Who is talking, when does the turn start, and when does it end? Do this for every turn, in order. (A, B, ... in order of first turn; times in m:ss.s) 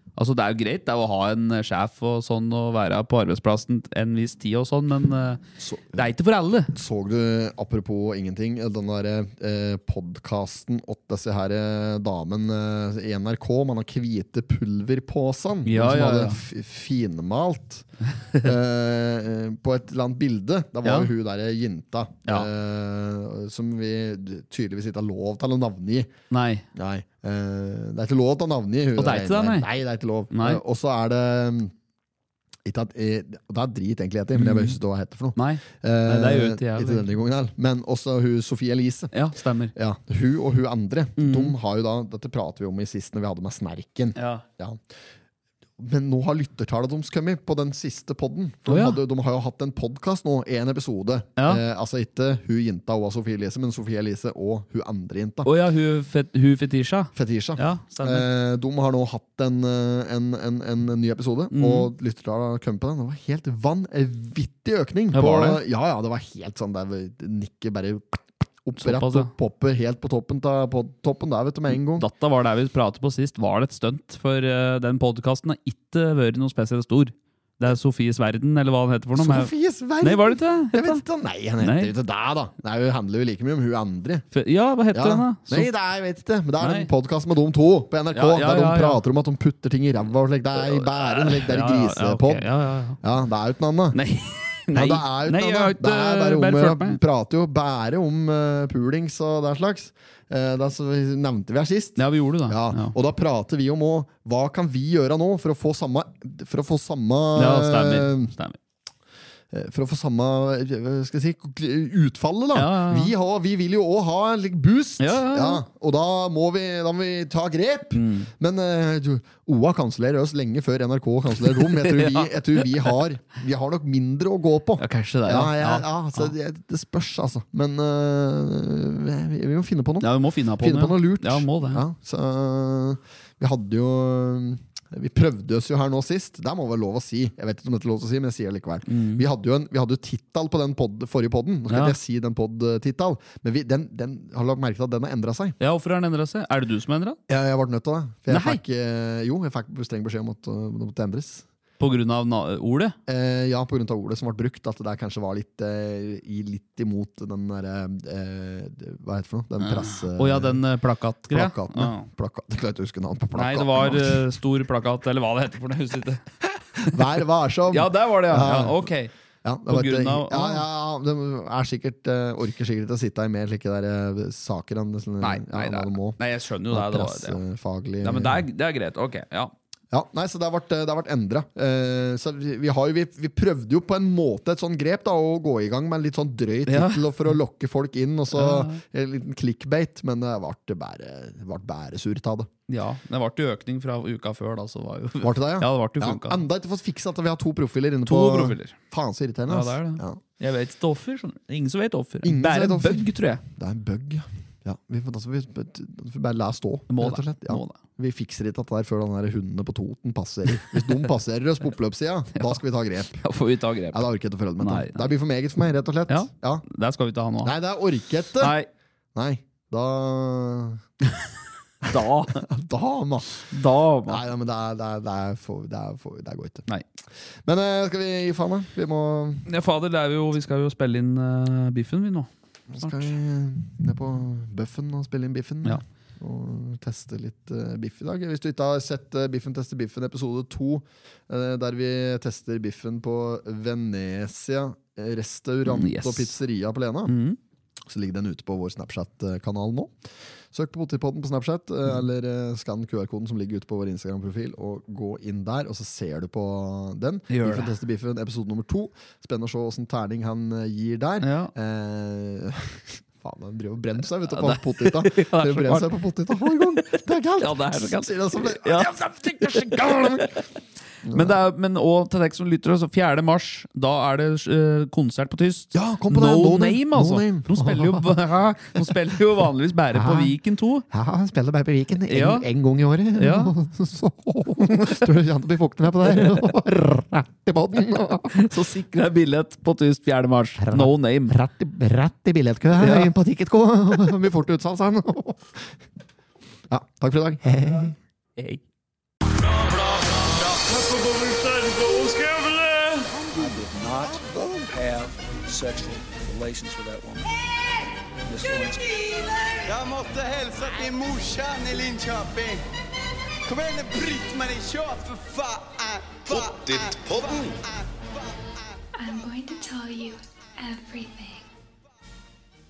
0:00.2-0:05.4 A
0:05.6-0:06.0 B
0:05.9-0:06.7 A
0:06.7-0:26.1 B
0:15.6-0:16.4 A
0:20.8-0:21.1 A
0:26.3-0:26.6 A
0:26.7-0:31.7 B
0:28.9-0:29.7 A
0:30.3-0:30.6 A
0:32.6-0:39.1 B
0:34.3-0:34.8 A
0:35.4-0:37.1 A
0:39.1-0:39.7 A
0:39.7-0:44.8 B
0:41.2-0:41.5 A
0:44.2-0:44.4 A
0:45.8-0:55.5 B
0:48.6-0:49.0 A
0:51.4-0:51.6 A
0:55.4-0:58.3 A
0:57.1-1:12.1 B
1:01.5-1:01.9 A
1:05.1-1:05.6 A
1:08.8-1:09.3 A
1:11.7-1:21.0 A
1:19.2-1:24.2 B
1:21.6-1:21.9 A
1:24.3-1:25.7 A
1:24.9-1:32.4 B
1:26.6-1:26.9 A
1:28.1-1:29.0 A
1:30.5-1:33.0 A
1:33.0-1:34.0 B
1:33.9-1:37.0 A
1:34.7-1:48.3 B
1:42.0-1:42.9 A
1:47.3-1:48.6 A
1:49.5-2:25.6 B
1:52.5-1:53.1 A
1:55.0-1:55.6 A
1:57.9-1:58.3 A
2:01.4-2:02.9 A
2:04.8-2:06.3 A
2:10.0-2:11.8 A
2:18.9-2:19.2 A
2:21.7-2:22.0 A
2:25.6-2:27.2 A
2:27.3-2:31.4 B
2:28.3-2:28.6 A
2:31.8-2:33.0 A
2:33.1-2:40.6 B
2:39.6-2:42.1 A
2:41.3-2:44.2 B
2:43.3-2:46.2 A
2:46.8-2:48.9 B
2:47.7-2:49.1 A
2:49.4-2:56.2 B
2:49.7-2:50.6 A
2:55.2-2:57.4 A
2:56.7-2:58.4 B
2:58.0-2:59.5 A
2:59.9-3:12.5 B
3:06.6-3:07.3 A
3:08.3-3:08.8 A
3:12.7-3:16.4 A
3:15.2-3:20.2 B
3:18.0-3:18.8 A
3:19.5-3:23.4 A
3:22.2-3:33.2 B
3:26.9-3:27.8 A
3:30.6-3:30.9 A
3:33.2-3:34.1 A
3:33.9-3:36.6 B
3:34.6-3:35.1 A
3:36.1-3:37.5 A
3:37.4-3:38.6 B
3:38.4-3:38.7 A
3:39.1-3:40.8 B
3:41.8-3:43.5 B
3:41.9-3:42.4 A
3:43.5-3:44.2 A
3:44.1-3:46.7 B
3:47.4-3:49.5 B
3:49.5-3:52.3 A
3:52.7-4:07.1 B
3:52.8-3:53.1 A
4:05.6-4:06.3 A
4:07.1-4:07.4 A
4:07.9-4:09.9 B
4:10.5-4:30.4 B
4:17.3-4:17.7 A
4:21.2-4:21.5 A
4:24.2-4:30.4 A
4:31.0-4:31.4 B
4:31.1-4:40.8 A
4:35.7-4:38.2 B
4:39.9-4:40.3 B
4:40.9-4:48.5 B
4:42.1-4:42.5 A
4:43.1-4:43.5 A
4:46.0-4:46.5 A
4:48.3-4:51.4 A
4:50.6-4:55.6 B
4:52.7-4:53.2 A
4:56.7-4:57.9 B
4:58.4-4:58.6 A
5:02.0-5:03.0 A
5:03.1-5:04.7 B
5:03.3-5:07.3 C
5:08.2-5:09.5 C
5:09.6-5:12.6 D
5:13.4-5:18.5 D
5:19.0-5:21.5 E